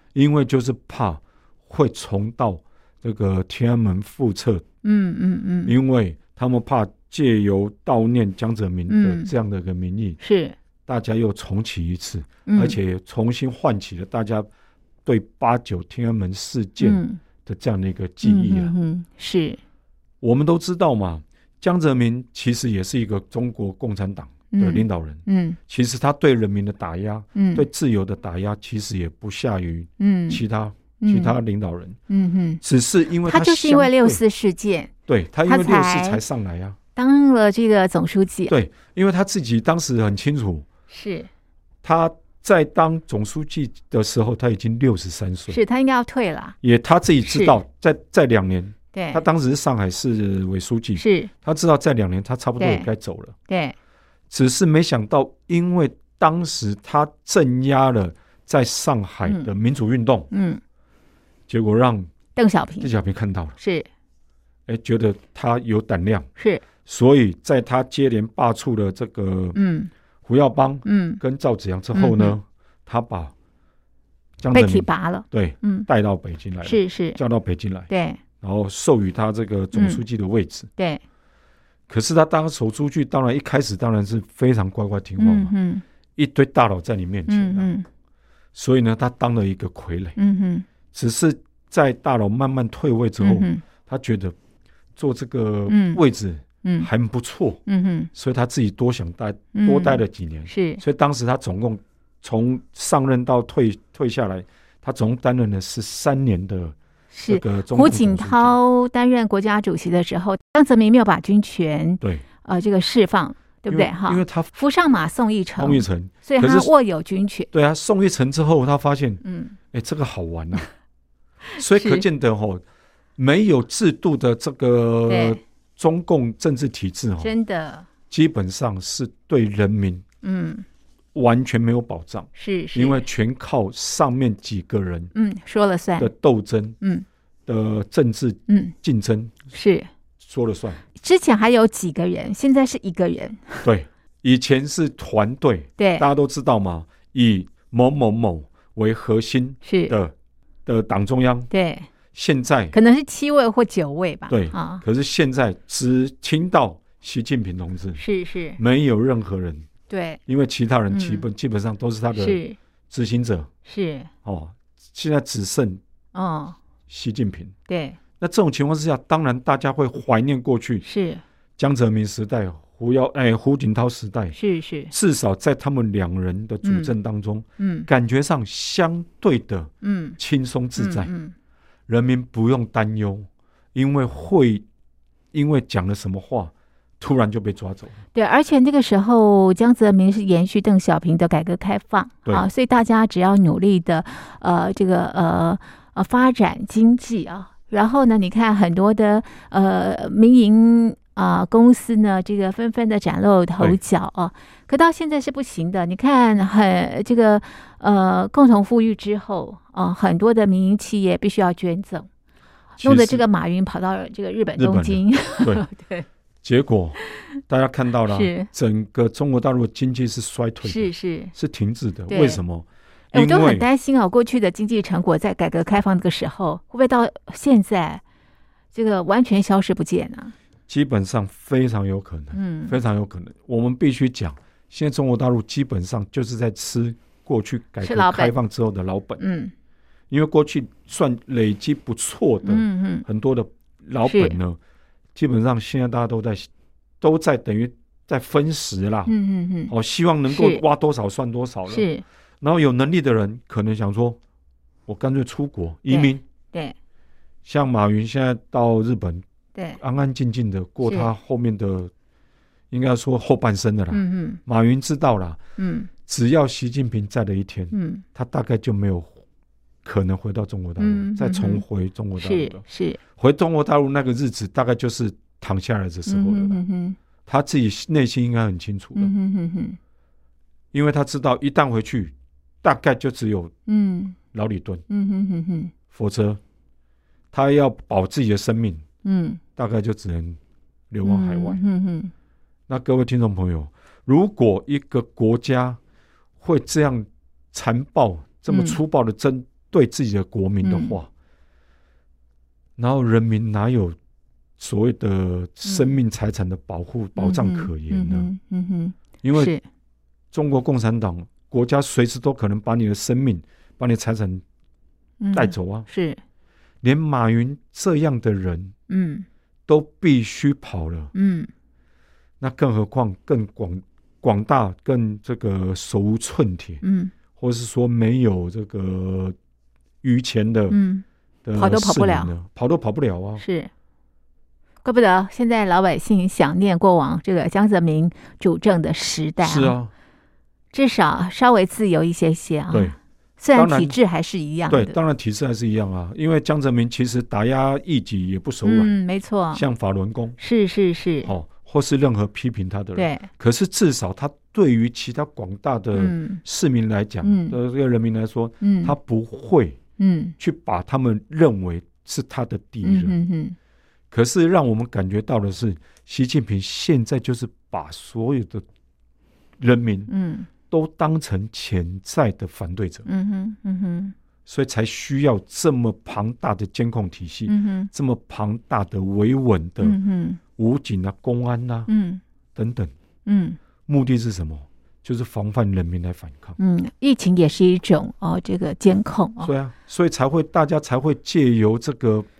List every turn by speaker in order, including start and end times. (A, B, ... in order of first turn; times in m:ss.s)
0:00.2-0:04.6 A
0:04.8-0:05.7 B
0:05.6-0:10.2 A
0:08.9-0:09.3 B
0:10.2-0:10.6 B
0:10.9-0:14.5 A
0:12.5-0:12.8 B
0:15.0-0:18.7 A
0:16.8-0:17.2 B
0:18.2-0:19.6 B
0:20.2-0:32.0 A
0:24.5-0:25.6 B
0:27.4-0:27.6 B
0:30.0-0:30.4 B
0:31.0-0:31.3 B
0:32.1-0:32.6 B
0:32.6-0:34.2 A
0:33.2-0:34.9 B
0:35.1-0:36.8 A
0:35.5-0:36.2 B
0:37.0-0:38.5 B
0:38.5-0:40.6 A
0:40.9-0:41.3 B
0:41.8-0:45.6 A
0:45.5-0:46.6 B
0:46.6-0:53.4 A
0:47.2-0:47.6 B
0:48.9-0:49.2 B
0:51.0-0:51.3 B
0:52.6-0:52.9 B
0:53.5-0:53.8 B
0:54.3-1:00.3 A
1:00.3-1:00.6 B
1:01.5-1:02.1 A
1:02.4-1:02.9 B
1:02.8-1:03.6 A
1:03.6-1:03.9 B
1:04.7-1:06.3 A
1:06.4-1:06.6 B
1:06.8-1:09.6 A
1:09.6-1:09.9 B
1:10.2-1:13.3 A
1:10.8-1:11.2 B
1:11.9-1:12.4 B
1:14.4-1:17.9 A
1:14.5-1:15.9 B
1:16.6-1:17.2 B
1:17.9-1:18.2 B
1:18.4-1:20.7 A
1:19.7-1:20.0 B
1:20.8-1:21.0 B
1:21.9-1:25.5 A
1:25.2-1:25.8 B
1:26.2-1:27.7 A
1:27.3-1:27.9 B
1:28.5-1:30.2 A
1:30.2-1:30.7 B
1:30.9-1:34.4 A
1:33.2-1:33.6 B
1:35.0-1:37.6 A
1:35.7-1:36.0 B
1:36.6-1:36.9 B
1:37.7-1:38.1 B
1:38.1-1:46.8 A
1:39.5-1:40.8 B
1:47.1-1:57.5 B
1:47.3-1:48.5 A
1:53.7-1:54.5 A
1:55.6-1:56.7 A
1:57.5-2:00.7 A
1:59.2-1:59.6 B
2:01.5-2:02.0 B
2:01.6-2:02.6 A
2:03.2-2:07.4 A
2:05.1-2:05.4 B
2:07.2-2:07.9 B
2:08.1-2:10.0 A
2:10.2-2:10.6 B
2:11.2-2:15.1 A
2:12.4-2:13.1 B
2:15.1-2:16.1 B
2:16.0-2:16.8 A
2:17.5-2:19.4 A
2:18.5-2:18.7 B
2:19.5-2:19.9 B
2:20.2-2:20.8 A
2:21.0-2:23.7 B
2:23.6-2:30.1 A
2:25.8-2:26.1 B
2:29.6-2:30.0 B
2:30.7-2:31.5 A
2:31.5-2:31.9 B
2:32.1-2:32.8 A
2:32.7-2:34.8 B
2:34.3-2:38.0 A
2:38.0-2:38.6 B
2:38.6-2:39.7 A
2:39.9-2:40.2 B
2:40.3-2:43.5 A
2:40.9-2:41.2 B
2:42.1-2:42.6 B
2:43.7-2:44.1 B
2:44.2-2:45.8 A
2:46.1-2:46.6 B
2:46.9-2:47.5 A
2:47.7-2:48.0 B
2:48.2-2:50.8 A
2:50.8-2:51.2 B
2:51.6-2:54.4 A
2:54.3-2:54.9 B
2:54.9-3:01.1 A
2:56.6-2:56.9 B
2:57.6-2:57.9 B
2:59.8-3:00.2 B
3:00.8-3:01.3 B
3:01.9-3:04.6 A
3:05.3-3:08.0 A
3:08.1-3:32.1 B
3:32.8-3:33.2 A
3:32.8-3:36.1 B
3:34.6-3:35.7 A
3:36.4-3:43.7 A
3:37.0-3:37.4 B
3:38.1-3:38.5 B
3:40.6-3:41.3 B
3:42.1-3:42.4 B
3:43.1-3:48.0 B
3:48.7-3:50.3 B
3:50.7-3:59.2 A
3:52.3-3:52.8 B
3:57.8-3:58.3 B
3:59.2-3:59.5 B
4:00.1-4:04.6 A
4:02.4-4:03.1 B
4:04.0-4:04.4 B
4:05.2-4:06.5 A
4:07.0-4:09.1 A
4:09.1-4:09.7 B
4:09.7-4:11.9 A
4:10.3-4:10.6 B
4:11.7-4:12.0 B
4:12.4-4:14.2 A
4:14.9-4:16.2 A
4:15.9-4:16.8 B
4:17.5-4:19.2 A
4:19.8-4:21.9 A
4:20.8-4:21.1 B
4:22.7-4:25.4 A
4:23.9-4:24.4 B
4:25.6-4:25.9 B
4:26.1-4:29.2 A
4:27.7-4:28.0 B
4:29.8-4:32.6 A
4:30.8-4:31.6 B
4:32.2-4:33.0 B
4:33.2-4:36.6 A
4:36.1-4:37.0 B
4:37.3-4:39.1 A
4:39.0-4:39.8 B
4:40.7-4:43.5 A
4:43.7-4:44.2 B
4:44.3-4:44.8 A
4:44.9-4:45.7 B
4:45.9-4:46.4 A
4:47.3-4:48.8 A
4:49.0-4:49.4 B
4:49.6-4:50.4 A
4:50.9-4:51.6 A
4:51.0-4:52.1 B
4:52.7-4:55.8 A
4:56.4-5:01.1 A
4:58.5-4:58.8 B
5:00.6-5:01.0 B
5:02.8-5:04.0 A
5:04.6-5:08.3 A
5:05.6-5:05.9 B
5:07.2-5:09.6 B
5:09.2-5:09.5 A
5:10.3-5:14.4 A
5:15.2-5:16.2 B
5:15.3-5:15.9 A
5:16.8-5:18.7 A
5:18.9-5:19.3 B
5:19.7-5:21.1 A
5:21.1-5:21.5 B
5:22.4-5:26.8 A
5:26.8-5:27.1 B
5:27.4-5:29.4 A
5:30.0-5:30.8 A
5:30.7-5:31.0 B
5:31.4-5:33.4 A
5:31.6-5:32.3 B
5:33.4-5:33.7 B
5:34.8-5:39.8 B
5:39.4-5:39.9 A
5:40.7-5:45.0 B
5:42.7-5:43.0 A
5:43.5-5:44.0 A
5:44.7-5:49.0 A
5:48.6-5:49.6 B
5:49.5-5:50.4 A
5:50.4-5:51.3 B
5:51.2-5:59.8 A
5:53.0-5:53.3 B
5:55.9-5:56.4 B
5:57.2-5:57.6 B
5:58.6-5:58.9 B
6:00.0-6:00.4 B
6:00.4-6:03.2 A
6:02.8-6:03.6 B
6:04.1-6:08.6 A
6:09.6-6:10.1 A
6:10.1-6:10.5 B
6:10.7-6:13.1 A
6:13.1-6:14.2 B
6:14.5-6:20.0 A
6:17.5-6:17.9 B
6:19.8-6:20.4 B
6:20.6-6:21.9 A
6:21.9-6:22.2 B
6:22.6-6:22.9 A
6:23.3-6:23.6 B
6:23.9-6:26.6 A
6:26.6-6:29.5 B
6:29.4-6:32.3 A